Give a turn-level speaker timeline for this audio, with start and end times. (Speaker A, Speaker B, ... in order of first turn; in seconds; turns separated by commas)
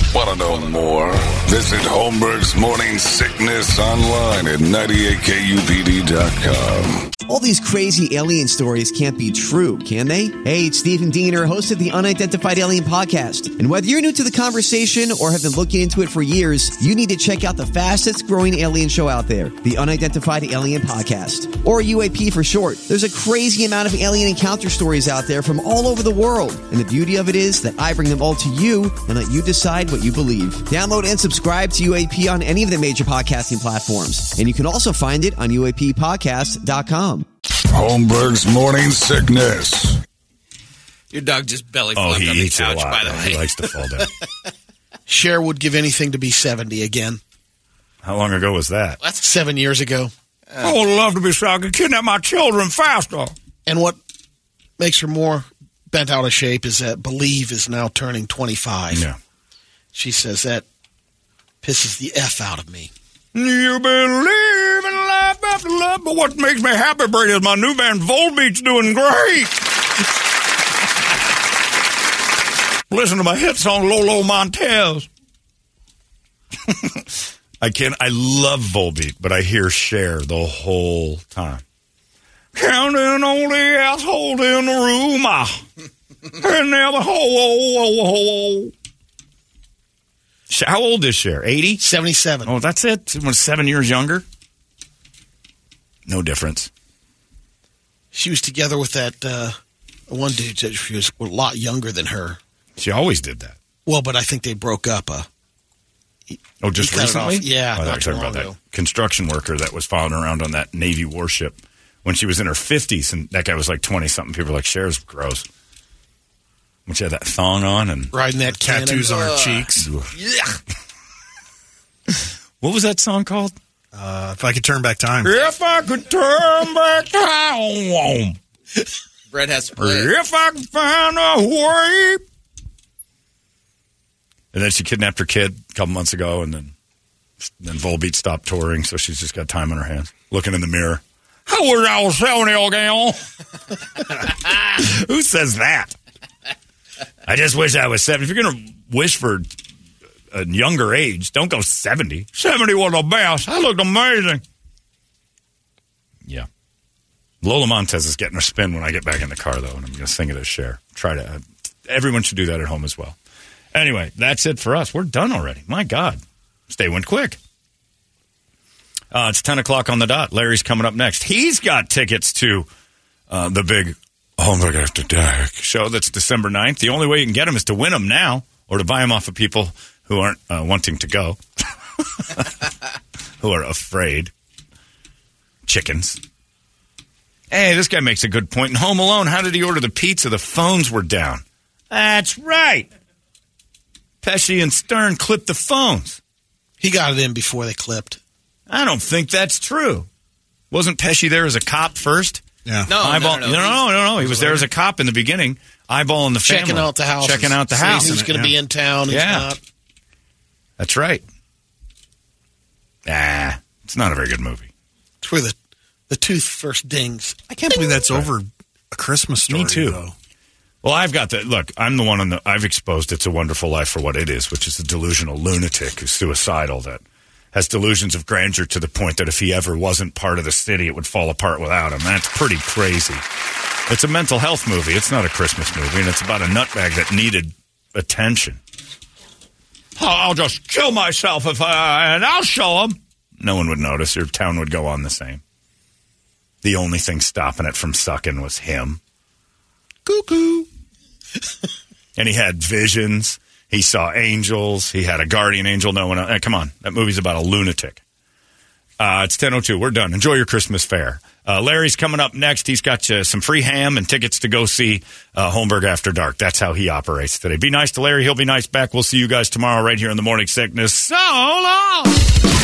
Speaker A: 0.1-7.1, Speaker B: 7.3-37.3, Speaker A: 37.7-40.0, Speaker C: 41.1-43.5, Speaker D: 41.9-44.1, Speaker E: 45.1-47.2, Speaker D: 48.0-49.0, Speaker E: 49.2-50.1, Speaker D: 50.6-53.4, Speaker E: 53.7-54.0, Speaker E: 54.8-59.0, Speaker D: 58.9-59.2, Speaker E: 59.9-60.6, Speaker E: 61.6-62.9, Speaker D: 63.3-69.7, Speaker D: 72.9-75.1, Speaker D: 76.7-81.6, Speaker D: 82.5-85.7, Speaker D: 86.4-88.7, Speaker D: 90.5-91.8, Speaker E: 91.8-92.5, Speaker D: 92.4-94.2, Speaker D: 96.1-96.7, Speaker E: 98.1-99.6, Speaker E: 100.1-102.4, Speaker D: 102.8-103.6, Speaker E: 103.9-105.3, Speaker E: 106.3-108.6, Speaker D: 106.6-115.5, Speaker D: 116.9-118.2, Speaker E: 118.1-119.3, Speaker F: 118.4-119.9, Speaker C: 119.3-119.7, Speaker D: 119.8-120.1, Speaker C: 120.2-120.5, Speaker D: 122.1-123.5, Speaker F: 123.9-125.3, Speaker D: 125.2-128.4, Speaker C: 129.3-130.1, Speaker D: 129.8-132.2, Speaker D: 134.5-136.7, Speaker D: 137.4-143.2, Speaker D: 143.8-145.9, Speaker D: 147.2-149.5, Speaker D: 150.3-154.4, Speaker D: 157.4-163.2, Speaker D: 163.7-167.4, Speaker D: 169.1-172.7, Speaker D: 173.3-181.4, Speaker D: 182.0-182.6, Speaker D: 183.4-184.3, Speaker D: 185.7-186.2, Speaker D: 187.5-192.9, Speaker D: 194.2-196.2, Speaker E: 196.8-198.2, Speaker D: 198.7-200.1, Speaker D: 200.7-208.2, Speaker F: 202.7-203.0, Speaker C: 202.9-204.2, Speaker E: 206.4-209.6, Speaker F: 207.9-208.6, Speaker D: 209.1-209.5, Speaker D: 210.8-211.2, Speaker D: 213.1-214.7, Speaker E: 215.2-215.6, Speaker E: 216.1-217.4, Speaker F: 217.5-220.2, Speaker D: 219.4-220.0, Speaker D: 220.8-227.0, Speaker D: 227.5-233.2, Speaker D: 233.9-238.6, Speaker D: 240.0-245.4, Speaker D: 246.6-249.0, Speaker D: 250.1-250.7, Speaker D: 252.2-258.0, Speaker D: 259.0-272.1